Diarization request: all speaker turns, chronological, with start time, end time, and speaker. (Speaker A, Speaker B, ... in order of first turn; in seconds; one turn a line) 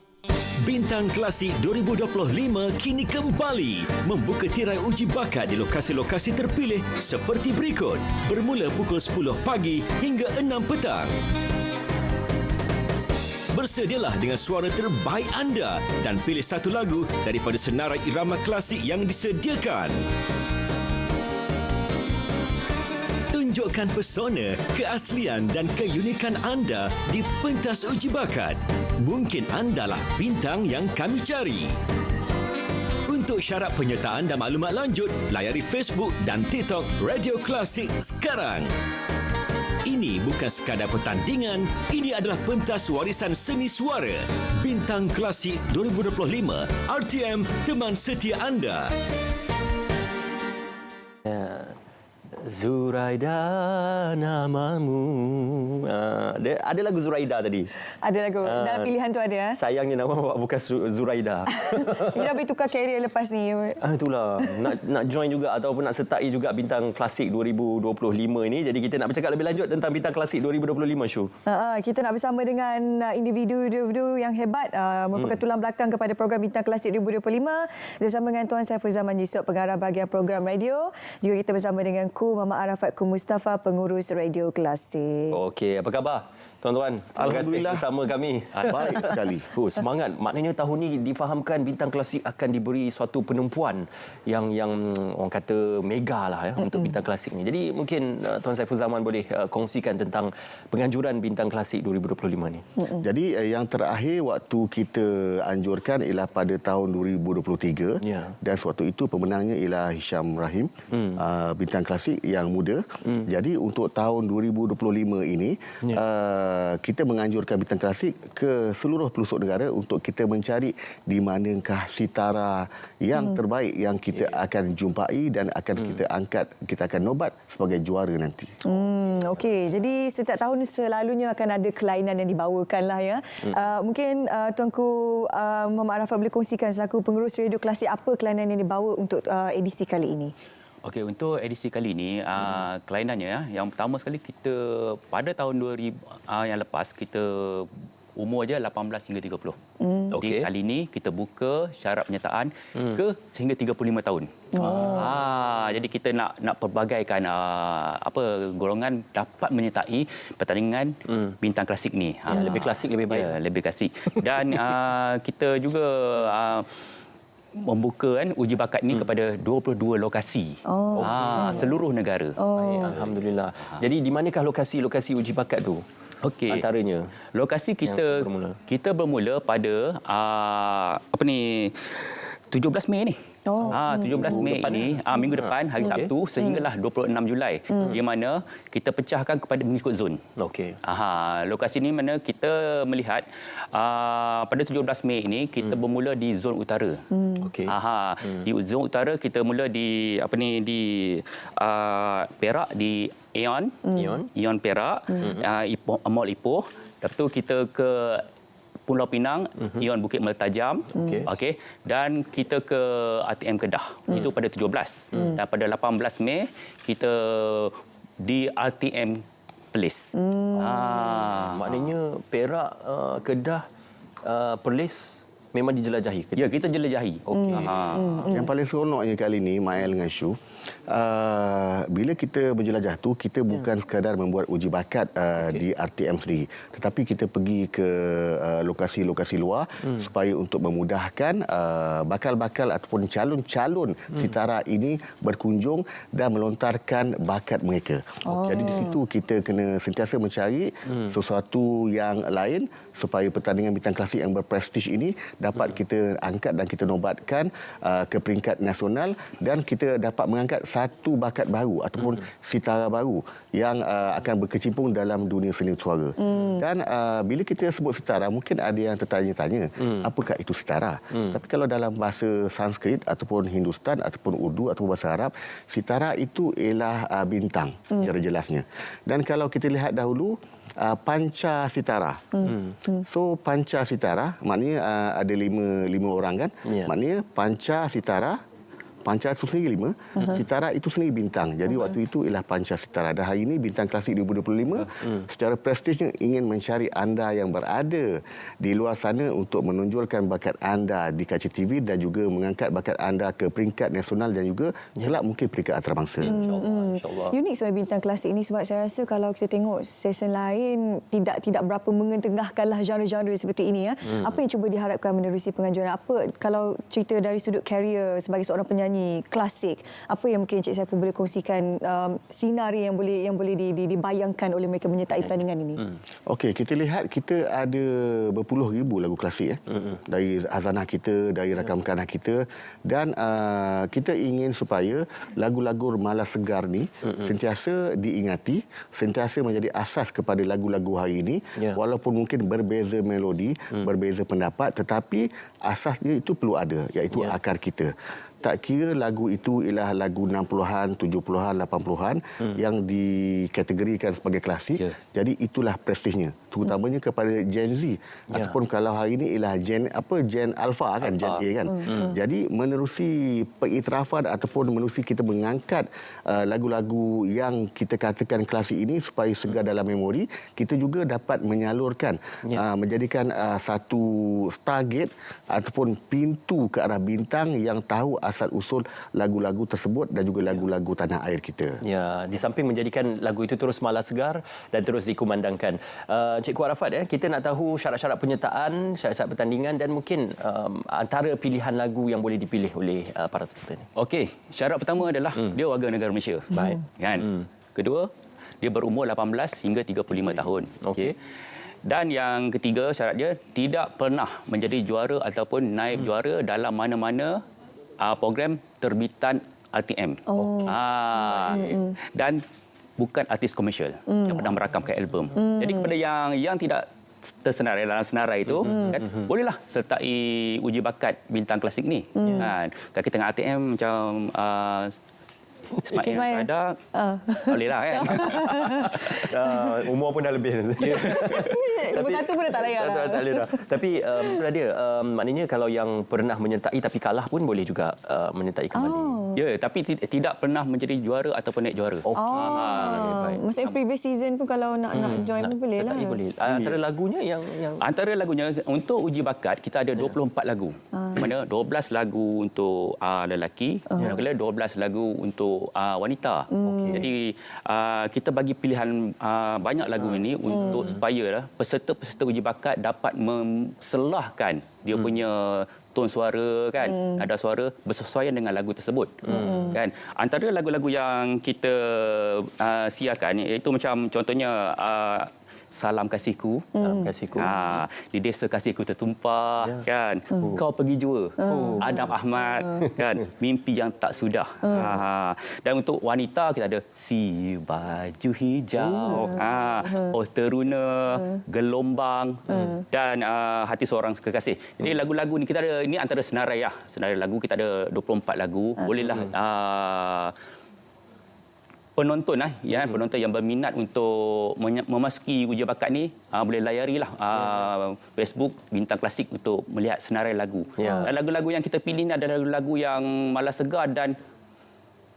Speaker A: 0.6-11.1
Speaker A: 13.5-20.0
Speaker A: 23.3-31.7
Speaker A: 33.1-38.7
Speaker A: 39.8-48.9
Speaker B: 51.2-51.8
Speaker B: 52.4-57.7
Speaker C: 58.0-59.6
Speaker B: 58.4-58.9
Speaker B: 59.5-62.3
Speaker C: 61.5-63.8
Speaker B: 63.8-71.3
Speaker C: 64.4-64.7
Speaker C: 71.5-85.4
Speaker B: 85.3-102.8
Speaker D: 87.2-87.8
Speaker E: 88.5-89.0
Speaker D: 88.7-89.5
Speaker D: 102.9-128.5
Speaker B: 108.0-108.3
Speaker B: 110.9-111.2
Speaker C: 128.6-140.3
Speaker E: 140.8-149.6
Speaker C: 149.8-150.1
Speaker B: 150.1-150.5
Speaker E: 150.2-154.3
Speaker B: 154.6-155.1
Speaker C: 154.6-155.1
Speaker E: 154.8-166.7
Speaker B: 162.3-163.3
Speaker E: 167.6-172.4
Speaker C: 170.7-171.7
Speaker B: 170.9-171.6
Speaker C: 172.4-172.9
Speaker B: 172.5-175.8
Speaker E: 176.2-176.7
Speaker B: 176.5-177.1
Speaker E: 177.3-183.2
Speaker B: 177.8-178.6
Speaker C: 183.4-184.3
Speaker B: 183.7-186.1
Speaker E: 183.7-190.2
Speaker B: 190.4-190.8
Speaker E: 190.8-197.0
Speaker C: 197.1-197.5
Speaker B: 197.4-198.3
Speaker E: 197.6-208.2
Speaker B: 203.9-204.3
Speaker E: 208.9-221.9
Speaker B: 210.9-211.3
Speaker C: 220.1-220.9
Speaker B: 220.6-223.6
Speaker B: 224.2-226.4
Speaker E: 226.3-228.1
Speaker B: 227.3-228.3
Speaker C: 227.3-228.4
Speaker D: 228.3-230.4
Speaker D: 230.9-282.4
Speaker C: 248.3-248.9
Speaker C: 266.3-266.6
Speaker C: 282.4-283.0
Speaker B: 282.4-282.8
Speaker D: 283.1-288.4
Speaker B: 286.7-286.9
Speaker D: 289.1-306.4
Speaker B: 306.2-307.3
Speaker C: 306.2-325.9
Speaker D: 326.3-381.8
Speaker B: 361.1-362.1
Speaker C: 361.7-362.1
Speaker B: 381.8-393.9
Speaker E: 393.9-398.1
Speaker B: 396.5-397.4
Speaker E: 398.6-401.1
Speaker B: 400.8-401.2
Speaker E: 401.9-407.4
Speaker E: 408.0-412.4
Speaker C: 410.3-410.8
Speaker C: 411.5-411.9
Speaker E: 413.0-424.9
Speaker C: 414.1-414.3
Speaker C: 415.4-415.9
Speaker C: 418.6-419.0
Speaker C: 422.2-422.5
Speaker E: 425.8-426.8
Speaker C: 426.0-429.9
Speaker E: 427.4-429.2
Speaker B: 428.7-439.2
Speaker C: 430.8-433.6
Speaker E: 430.8-431.5
Speaker C: 438.7-439.4
Speaker E: 439.4-443.8
Speaker B: 442.1-443.4
Speaker C: 442.1-446.2
Speaker B: 444.9-447.8
Speaker E: 447.8-476.8
Speaker C: 450.9-451.2
Speaker C: 456.5-457.1
Speaker B: 456.6-457.0
Speaker C: 460.5-460.8
Speaker C: 466.9-467.2
Speaker B: 469.3-469.7
Speaker C: 469.3-469.7
Speaker B: 476.8-477.8
Speaker E: 477.4-500.3
Speaker B: 479.6-480.6
Speaker C: 481.4-481.7
Speaker B: 481.5-482.0
Speaker C: 489.1-490.0
Speaker E: 502.0-514.1
Speaker B: 510.8-511.1